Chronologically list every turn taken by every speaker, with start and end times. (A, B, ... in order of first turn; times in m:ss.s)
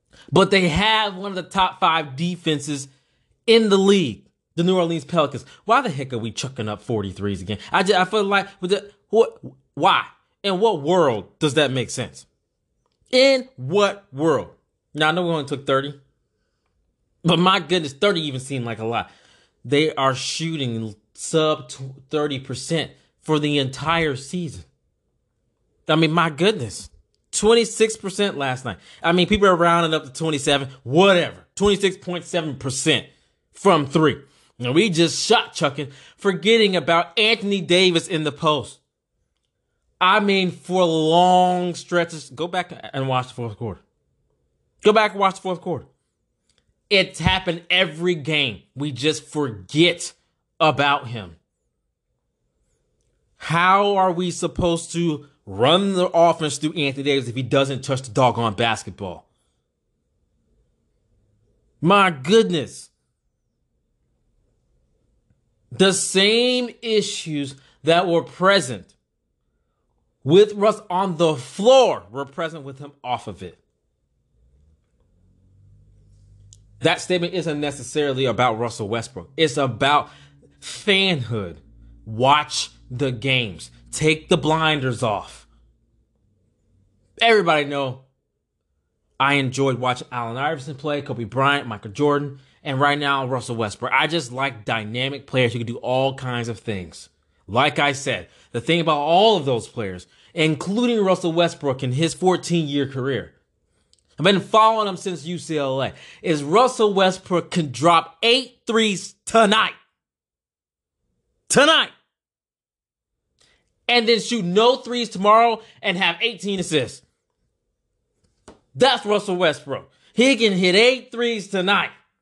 0:00.3-0:02.9 A
0:03.5-0:12.3 A
0:13.1-0:16.0 A
0:17.2-0:19.1 A
0:19.6-0:24.7 A
0:25.9-0:38.8 A
0:40.0-0:43.8 A
0:44.8-0:45.9 A
0:46.9-0:51.4 A
0:53.4-0:59.3 A
1:01.8-1:02.9 A
1:05.7-1:09.0 A
1:10.2-1:13.6 A
1:16.8-1:25.5 A
1:27.2-1:28.0 A
1:29.2-1:43.4 A
1:44.2-1:49.8 A
1:51.5-1:51.9 A
1:53.9-1:57.0 A
1:58.8-2:02.0 A